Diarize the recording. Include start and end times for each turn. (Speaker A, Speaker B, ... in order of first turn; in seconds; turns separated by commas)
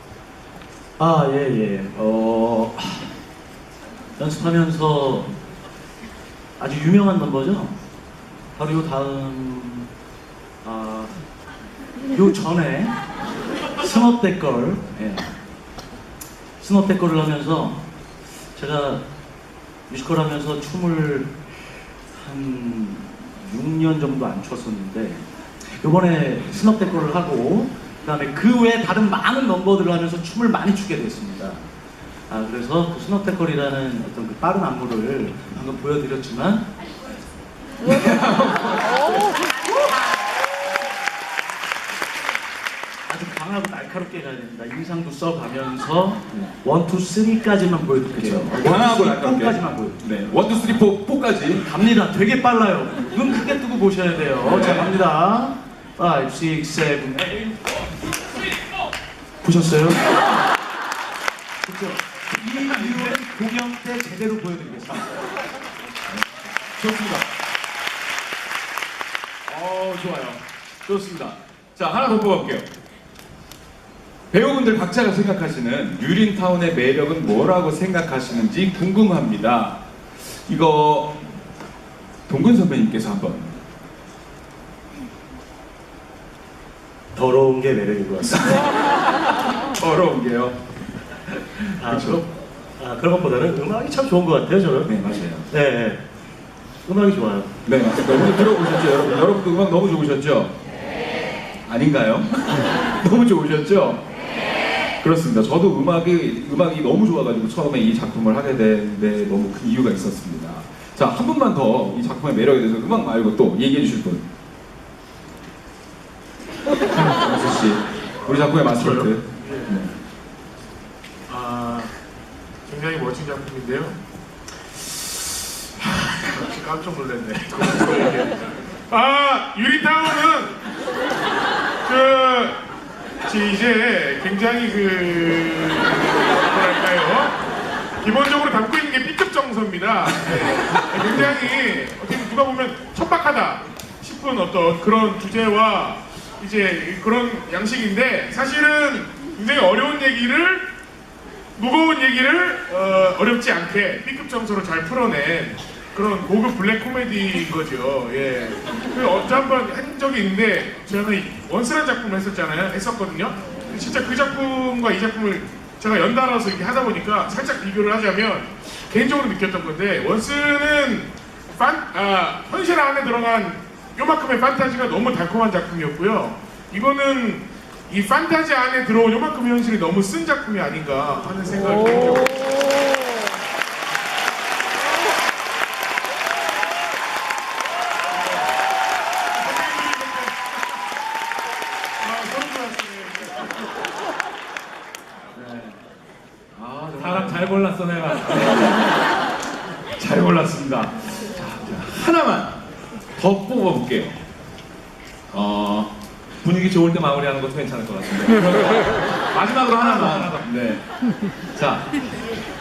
Speaker A: 1.0-3.1, Speaker A: 4.2-5.3, Speaker A: 6.6-7.8, Speaker A: 8.6-9.9, Speaker A: 10.6-11.2, Speaker A: 12.1-12.9, Speaker A: 13.8-15.3, Speaker A: 16.6-17.8, Speaker A: 18.6-19.0, Speaker A: 19.9-21.5, Speaker A: 22.1-31.7, Speaker A: 32.3-36.7, Speaker B: 37.8-39.3, Speaker A: 43.1-50.0, Speaker B: 48.1-51.6, Speaker A: 51.6-57.6, Speaker B: 54.4-54.9, Speaker A: 59.4-60.1, Speaker A: 61.7-65.1, Speaker B: 62.5-63.2, Speaker B: 66.7-67.3, Speaker B: 69.5-72.7, Speaker B: 74.3-79.8, Speaker B: 80.5-81.2, Speaker B: 82.3-83.6, Speaker A: 87.1-88.6, Speaker B: 88.3-88.7, Speaker B: 89.8-90.6, Speaker B: 91.7-92.2, Speaker A: 91.8-96.0, Speaker B: 94.9-95.5, Speaker A: 96.8-97.5, Speaker B: 97.7-100.5, Speaker B: 101.7-104.0, Speaker B: 105.0-114.3, Speaker B: 116.9-119.9, Speaker C: 118.8-119.8, Speaker C: 121.3-121.9, Speaker C: 122.7-124.0, Speaker C: 125.8-130.6, Speaker C: 131.8-132.6, Speaker C: 133.2-137.4, Speaker C: 138.0-150.7, Speaker C: 151.6-182.6, Speaker C: 189.4-190.6, Speaker C: 192.0-193.7, Speaker B: 195.4-195.7, Speaker B: 196.6-197.5, Speaker D: 197.0-198.8, Speaker B: 200.0-202.6, Speaker B: 203.2-204.2, Speaker B: 205.3-205.9, Speaker D: 206.4-208.8, Speaker B: 209.3-210.8, Speaker D: 209.9-210.4, Speaker B: 211.6-211.9